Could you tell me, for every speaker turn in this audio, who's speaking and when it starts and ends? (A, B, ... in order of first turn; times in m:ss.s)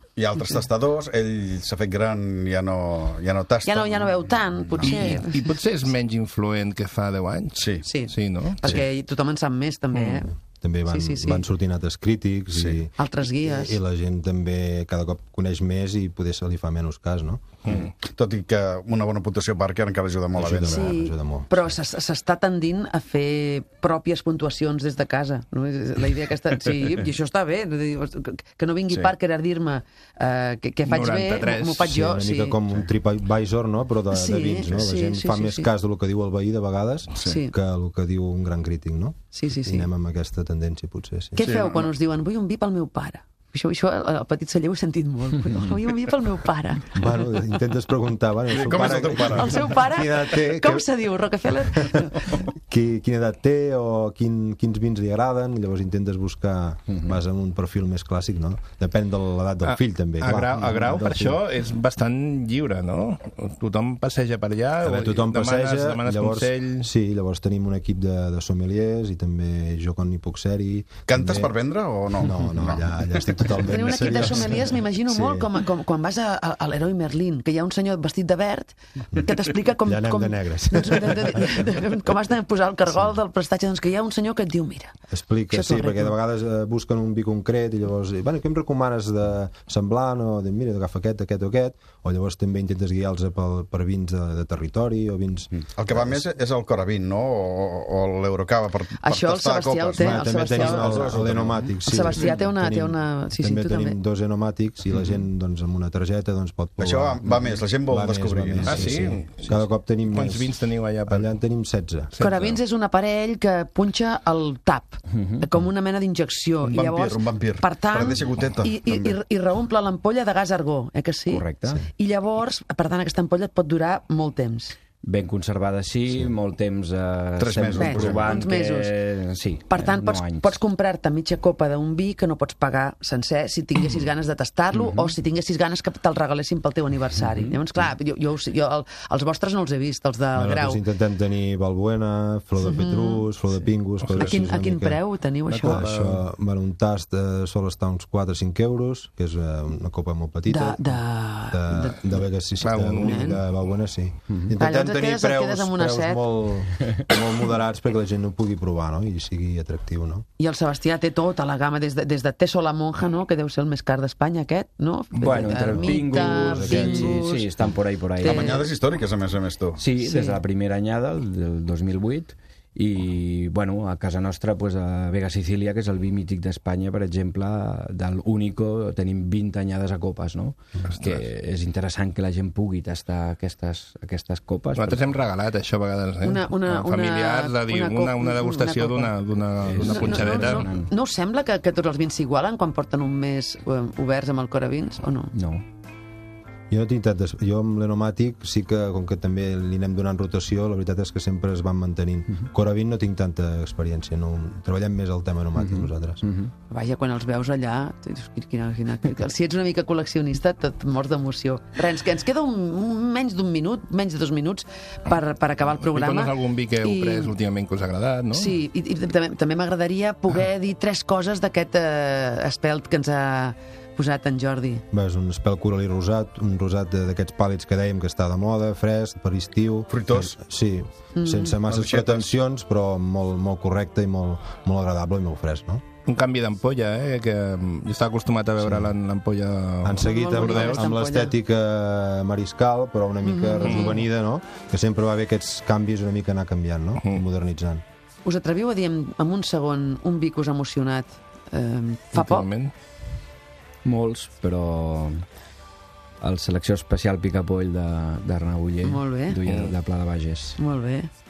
0:00.2-0:05.0 A
0:03.6-0:05.5 B
0:04.8-0:08.6 C
0:07.6-0:07.8 A
0:07.8-0:10.3 B
0:09.9-0:10.2 C
0:10.6-0:12.9 D
0:10.9-0:11.4 B
0:13.0-0:13.8 B
0:13.4-0:17.4 D
0:17.7-0:21.0 A
0:20.3-0:21.7 D
0:20.6-0:32.6 B
0:30.8-0:32.0 C
0:31.8-0:41.5 D
0:34.1-0:35.7 B
0:37.2-0:37.5 B
0:39.3-0:39.9 B
0:41.4-0:47.0 B
0:41.4-0:41.9 A
0:46.9-0:50.9 D
0:48.5-0:49.7 A
0:49.2-0:52.3 B
0:51.7-0:52.0 D
0:52.7-1:01.4 D
0:59.6-1:06.9 C
1:04.8-1:11.5 D
1:11.1-1:13.6 A
1:12.2-1:15.5 D
1:13.6-1:24.9 B
1:19.8-1:21.6 D
1:25.1-1:36.2 D
1:25.5-1:26.1 B
1:35.6-1:42.2 A
1:39.0-1:41.2 B
1:40.0-1:50.6 D
1:41.8-1:44.0 B
1:46.8-1:49.1 A
1:48.6-1:51.3 C
1:51.1-1:52.1 D
1:52.1-1:52.6 C
1:52.2-2:04.8 B
1:55.1-1:55.4 E
1:56.6-1:59.2 A
2:01.3-2:01.8 E
2:05.0-2:10.6 E
2:07.4-2:08.4 A
2:07.8-2:08.9 B
2:09.7-2:20.8 B
2:20.3-2:25.0 D
2:22.6-2:23.3 B
2:24.1-2:25.9 B
2:25.5-2:26.2 C
2:25.6-2:40.2 D
2:30.5-2:32.0 B
2:32.6-2:33.4 C
2:33.0-2:33.4 B
2:34.6-2:36.2 B
2:40.4-2:48.7 B
2:45.1-2:48.6 E
2:45.6-2:47.3 D
2:48.2-2:49.8 A
2:49.8-3:05.1 E
2:50.0-2:50.4 B
3:00.9-3:01.2 C
3:04.8-3:10.7 C
3:06.2-3:09.1 B
3:09.7-3:10.9 E
3:09.8-3:15.3 B
3:15.3-3:15.6 E
3:16.7-3:26.2 D
3:25.6-3:26.5 E
3:26.7-3:37.3 B
3:35.8-3:38.6 C
3:38.3-3:44.8 B
3:44.9-3:55.8 D
3:49.9-3:50.3 A
3:51.1-3:51.6 B
3:51.6-3:52.3 A
3:56.0-4:00.8 C
3:58.6-3:58.9 D
3:59.8-4:07.8 D
4:00.0-4:01.3 B
4:03.2-4:04.0 B
4:03.6-4:04.0 C
4:08.2-4:12.5 B
4:12.1-4:12.7 C
4:13.8-4:15.2 E
4:16.2-4:20.6 E
4:18.8-4:19.4 B
4:19.5-4:19.7 C
4:20.6-4:21.1 B